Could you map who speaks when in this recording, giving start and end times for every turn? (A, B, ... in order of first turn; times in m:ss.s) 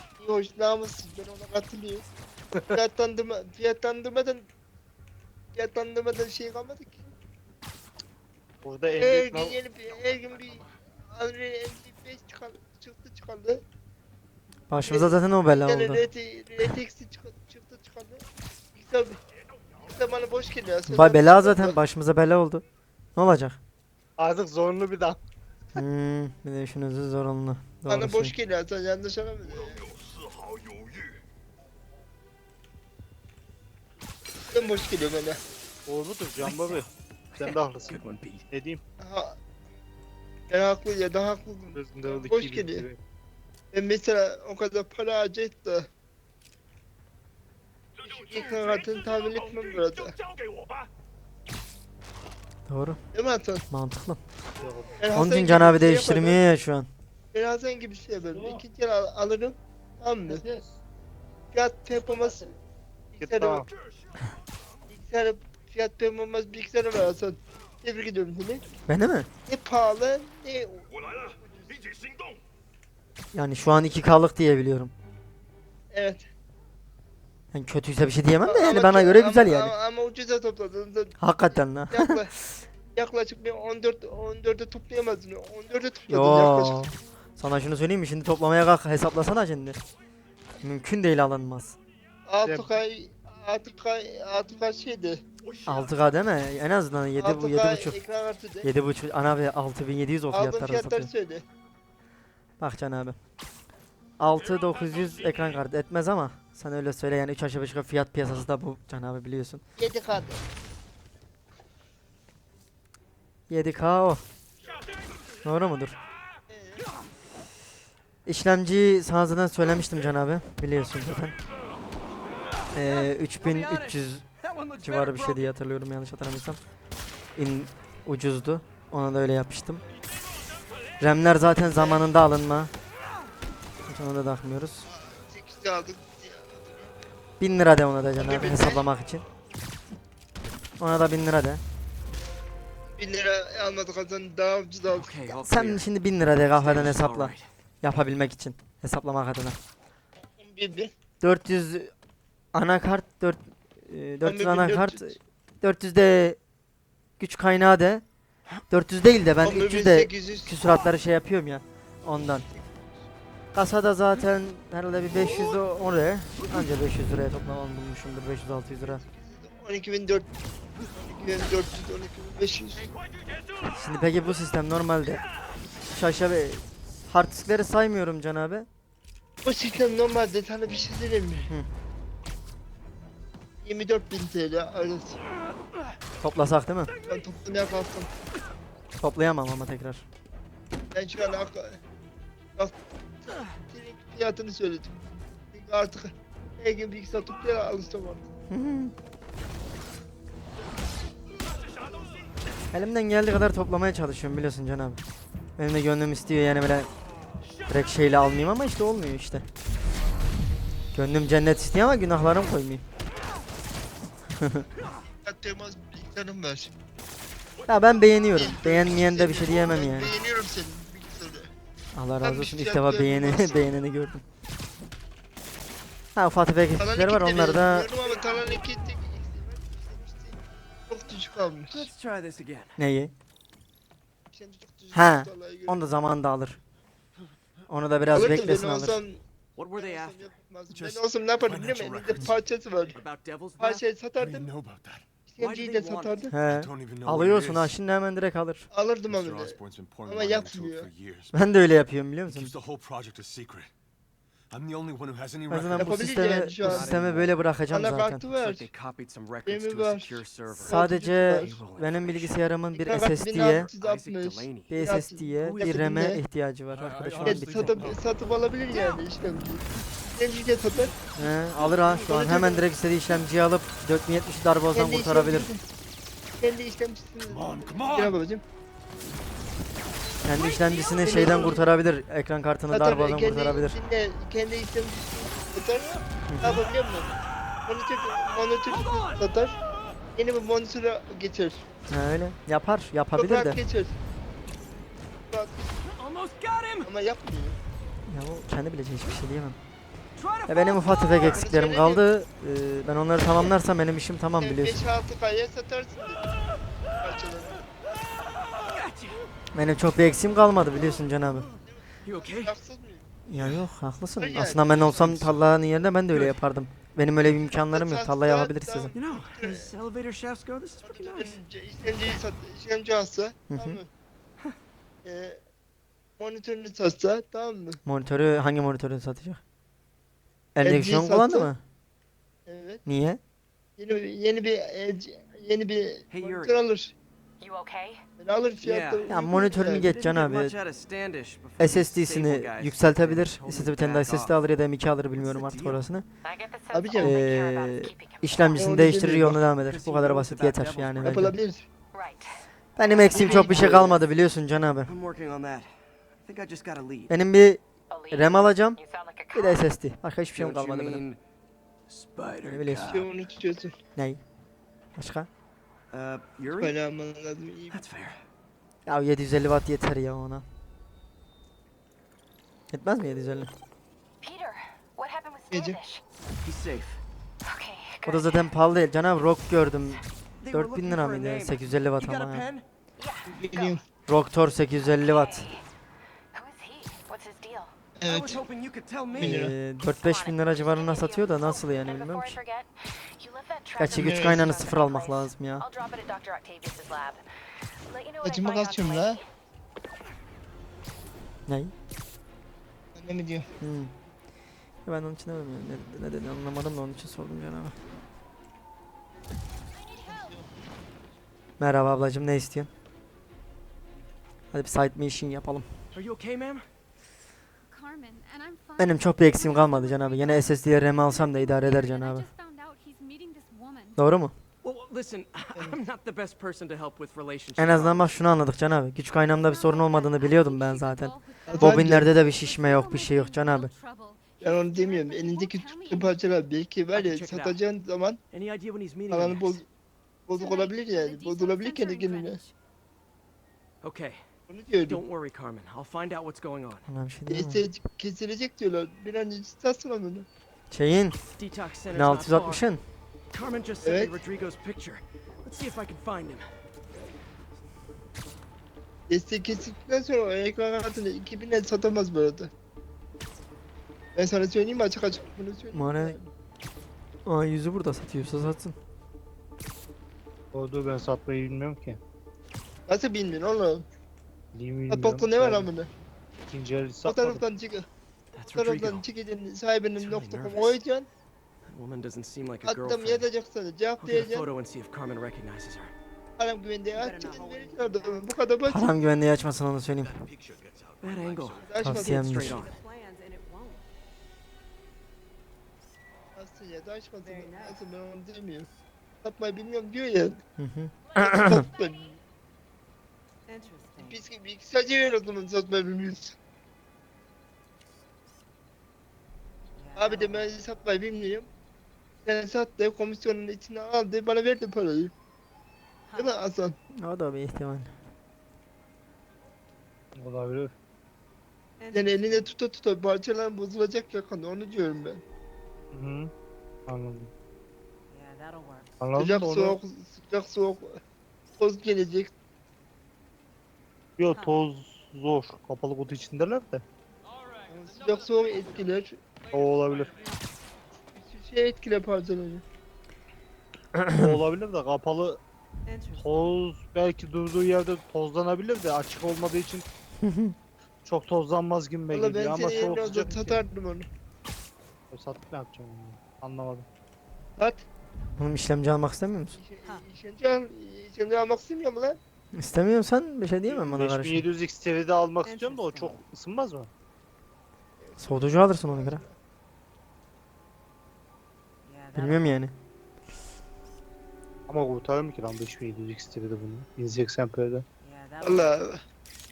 0:00.2-0:02.0 A
0:02.7-0:04.4 A
0:05.5-0:07.1 A
0:08.6-0:09.6 B
0:08.9-0:13.6 A
0:14.7-0:16.0 C
0:14.9-0:19.2 A
0:19.8-0:21.8 A
0:20.9-0:22.6 C
0:23.2-0:23.6 C
0:24.2-0:25.2 B
0:25.8-0:28.3 C
0:27.9-0:29.9 A
0:34.5-0:35.4 A
0:35.9-0:38.8 B
0:36.4-0:36.8 D
0:37.4-0:38.4 D
0:39.0-0:39.4 A
0:40.5-0:42.9 A
0:41.7-0:43.0 B
0:43.7-0:45.9 A
0:48.0-0:50.2 A
0:52.7-0:53.0 C
0:53.1-0:53.6 A
0:53.7-0:54.2 C
0:54.6-0:55.0 B
0:55.0-0:56.4 A
0:55.1-0:56.9 C
0:57.3-1:00.4 A
1:00.4-1:00.7 B
1:01.5-1:02.6 A
1:03.1-1:03.6 A
1:03.2-1:03.7 B
1:04.9-1:08.6 A
1:08.9-1:09.3 C
1:09.5-1:12.0 A
1:13.3-1:14.9 C
1:15.9-1:16.3 A
1:17.5-1:19.7 C
1:18.4-1:22.3 A
1:21.2-1:22.6 C
1:23.0-1:26.8 A
1:26.1-1:29.8 C
1:30.6-1:31.8 C
1:32.3-1:35.2 A
1:32.4-1:32.7 B
1:35.7-1:38.0 C
1:37.2-1:38.7 A
1:38.6-1:41.1 C
1:40.3-1:41.4 A
1:42.6-1:43.2 C
1:44.2-1:49.6 C
1:49.8-1:50.4 A
1:53.5-1:54.2 C
1:55.4-1:56.0 C
1:56.5-1:56.9 A
1:58.3-2:01.4 C
2:02.7-2:04.2 C
2:02.8-2:05.5 D
2:04.8-2:06.6 C
2:07.4-2:09.8 C
2:11.0-2:12.7 C
2:11.7-2:12.0 A
2:13.9-2:14.9 C
2:15.0-2:16.9 A
2:17.4-2:19.2 C
2:18.2-2:18.8 A
2:20.8-2:21.6 C
2:23.0-2:25.4 A
2:24.9-2:25.9 D
2:25.4-2:29.6 C
2:26.4-2:27.4 D
2:30.4-2:30.9 A
2:31.2-2:31.9 C
2:32.5-2:36.4 C
2:34.2-2:35.2 A
2:37.2-2:38.0 C
2:38.7-2:42.5 C
2:39.4-2:40.6 A
2:42.2-2:42.8 A
2:43.5-2:49.0 C
2:48.6-2:50.3 A
2:51.0-2:52.9 A
2:53.6-2:55.2 C
2:55.9-2:58.7 C
2:59.4-3:01.5 A
3:03.6-3:05.2 A
3:06.2-3:06.9 C
3:07.0-3:08.1 A
3:09.0-3:10.0 C
3:10.9-3:11.8 A
3:12.6-3:18.3 A
3:18.5-3:18.9 C
3:22.7-3:25.0 C
3:25.6-3:26.9 C
3:27.7-3:29.5 C
3:30.9-3:32.8 C
3:34.4-3:34.6 C
3:35.2-3:36.7 A
3:37.7-3:40.1 C
3:38.3-3:41.5 A
3:41.9-3:44.2 C
3:42.2-3:43.7 A
3:46.2-3:47.9 C
3:46.8-3:51.9 A
3:51.7-3:52.8 D
3:52.8-3:53.1 C
3:54.3-3:55.8 A
3:54.9-3:56.6 C
3:57.7-3:59.0 C
3:58.1-3:59.2 A
3:59.6-4:00.3 D
3:59.7-4:03.0 A
4:00.7-4:02.4 E
4:02.9-4:03.8 D
4:03.6-4:04.5 A
4:04.2-4:05.0 E
4:05.3-4:06.3 A
4:05.4-4:06.3 D
4:06.3-4:08.7 C
4:06.4-4:07.8 E
4:08.7-4:10.9 A
4:09.1-4:11.3 E
4:11.3-4:12.6 C
4:12.3-4:13.7 E
4:14.5-4:16.1 E
4:15.5-4:18.2 C
4:15.8-4:17.1 A
4:16.6-4:17.3 D
4:17.7-4:18.7 A
4:18.4-4:20.8 D
4:19.4-4:21.6 A
4:20.6-4:23.7 C
4:21.3-4:22.4 D
4:22.8-4:26.2 A
4:23.3-4:25.7 D
4:24.7-4:27.9 C
4:26.7-4:28.0 E
4:27.2-4:31.0 A
4:31.2-4:35.5 C
4:32.0-4:32.7 A
4:34.7-4:35.6 A
4:36.4-4:38.4 A
4:37.3-4:38.1 E
4:40.2-4:43.8 C
4:41.0-4:41.7 A
4:42.7-4:49.6 A
4:46.3-4:46.6 C
4:50.2-4:51.7 A
4:51.9-4:53.6 C
4:53.2-4:54.0 A
4:55.3-4:55.7 A
4:55.9-4:56.9 D
4:56.8-4:57.6 A
4:58.1-4:59.6 C
5:00.2-5:01.4 D
5:00.5-5:04.8 C
5:01.2-5:02.0 A
5:04.4-5:06.3 A
5:07.0-5:07.6 A
5:08.6-5:09.2 D
5:09.5-5:11.5 C
5:11.6-5:13.1 A
5:12.0-5:12.5 D
5:13.3-5:18.9 C
5:14.2-5:15.4 A
5:17.3-5:19.7 A
5:19.0-5:21.4 D
5:20.8-5:23.9 A
5:23.5-5:23.8 C
5:25.0-5:25.4 A
5:26.2-5:27.8 A
5:27.8-5:29.4 C
5:30.6-5:31.6 C
5:30.6-5:31.5 A
5:32.5-5:32.8 A
5:32.9-5:33.2 C
5:33.8-5:36.9 A
5:36.1-5:36.6 D
5:37.4-5:38.0 F
5:38.2-5:39.9 A
5:38.6-5:39.1 D
5:39.1-5:40.5 C
5:39.6-5:44.3 D
5:41.6-5:46.1 C
5:45.2-5:45.8 D
5:46.2-5:48.9 F
5:46.7-5:47.2 A
5:47.0-5:51.4 C
5:48.6-5:49.4 A
5:49.5-5:51.3 D
5:51.0-5:51.6 A
5:51.9-5:53.7 F
5:52.8-5:54.9 C
5:53.1-5:54.0 A
5:53.1-5:53.9 D
5:54.9-5:55.7 D
5:56.2-5:57.1 D
5:57.1-5:58.8 C
5:57.9-5:59.7 F
5:59.3-6:01.0 C
6:00.4-6:01.2 D
6:01.9-6:03.1 D
6:02.4-6:03.0 C
6:02.8-6:03.8 A
6:04.0-6:04.2 C
6:05.0-6:05.3 C
6:05.9-6:06.8 D
6:06.5-6:07.8 A
6:07.7-6:08.2 D
6:08.9-6:10.4 C
6:12.7-6:13.5 C
6:14.2-6:16.0 F
6:15.5-6:15.8 A
6:16.4-6:17.0 D
6:17.4-6:18.5 F
6:18.1-6:22.5 C
6:20.4-6:22.6 D
6:23.0-6:23.8 F
6:23.3-6:23.8 A
6:24.1-6:25.5 C
6:24.8-6:25.6 F
6:26.3-6:27.7 F
6:28.0-6:28.4 A
6:28.1-6:29.4 D
6:29.1-6:29.5 A
6:29.2-6:32.4 C
6:29.9-6:37.2 F
6:33.8-6:35.6 C
6:33.9-6:34.5 A
6:37.9-6:39.3 F
6:38.2-6:39.2 A
6:41.5-6:41.7 C
6:42.9-6:43.5 A
6:43.6-6:43.9 C
6:44.8-6:47.8 C
6:49.9-6:50.3 G
6:50.1-6:50.4 A
6:51.6-6:52.7 C
6:54.5-6:55.7 C
6:55.9-6:56.6 D
6:57.7-7:04.0 G
6:58.8-7:02.3 C
7:04.0-7:04.3 C
7:04.6-7:08.1 D
7:07.6-7:13.7 C
7:09.2-7:16.2 G
7:11.5-7:12.1 A
7:14.4-7:18.2 A
7:16.9-7:17.6 D
7:18.3-7:19.6 D
7:19.1-7:19.7 A
7:20.3-7:22.4 A
7:20.3-7:22.5 G
7:23.8-7:24.2 D
7:24.5-7:25.0 A
7:24.9-7:26.8 D
7:26.9-7:27.6 C
7:27.3-7:30.3 A
7:30.7-7:31.2 C
7:31.4-7:32.6 D
7:31.9-7:32.8 C
7:33.3-7:36.5 D
7:33.8-7:34.1 A
7:39.1-7:42.5 A
7:44.2-7:46.3 A
7:45.7-7:46.2 C
7:47.3-7:48.8 C
7:50.5-7:52.0 B
7:52.9-7:53.9 A
7:54.5-7:55.7 B
7:54.9-7:55.9 A
7:56.5-7:57.4 B
7:57.0-7:57.9 A
7:58.4-7:59.0 D
7:58.5-8:01.1 A
8:00.0-8:00.8 D
8:01.7-8:03.3 D
8:02.6-8:04.5 A
8:04.0-8:05.9 D
8:06.4-8:09.0 A
8:07.0-8:08.4 F
8:08.7-8:10.2 C
8:10.0-8:11.8 E
8:11.0-8:12.8 D
8:11.6-8:12.6 A
8:11.8-8:12.7 C
8:12.5-8:13.8 F
8:16.4-8:18.7 A
8:17.2-8:17.8 F
8:19.2-8:20.4 A
8:20.6-8:21.6 C
8:21.2-8:22.2 A
8:23.5-8:24.2 F
8:24.0-8:26.4 A
8:29.8-8:30.4 F
8:30.0-8:31.5 A
8:32.2-8:35.1 A
8:36.1-8:36.4 F
8:36.1-8:36.8 A
8:37.0-8:37.9 C
8:40.2-8:40.7 B
8:41.8-8:42.1 F
8:41.9-8:45.2 A
8:45.9-8:46.3 B
8:46.9-8:47.3 B
8:48.1-8:48.9 F
8:49.0-8:49.8 B
8:49.2-8:51.0 A
8:51.6-8:52.3 A
8:54.2-8:56.8 B
8:54.3-8:54.6 F
8:57.7-8:59.2 A
8:59.5-9:00.1 B
9:01.2-9:02.6 A
9:04.0-9:04.4 C
9:04.1-9:05.4 B
9:05.9-9:06.6 F
9:06.2-9:09.9 B
9:10.2-9:10.6 C
9:11.0-9:13.6 B
9:12.1-9:14.1 A
9:15.1-9:16.9 B
9:17.6-9:17.8 A
9:18.4-9:19.6 C
9:19.5-9:22.2 A
9:22.5-9:24.4 C
9:23.7-9:26.9 B
9:25.4-9:26.2 F
9:28.0-9:29.4 A
9:28.2-9:29.2 C
9:31.8-9:32.4 F
9:32.2-9:32.7 C
9:34.7-9:37.8 B
9:38.0-9:38.6 F
9:38.4-9:39.0 A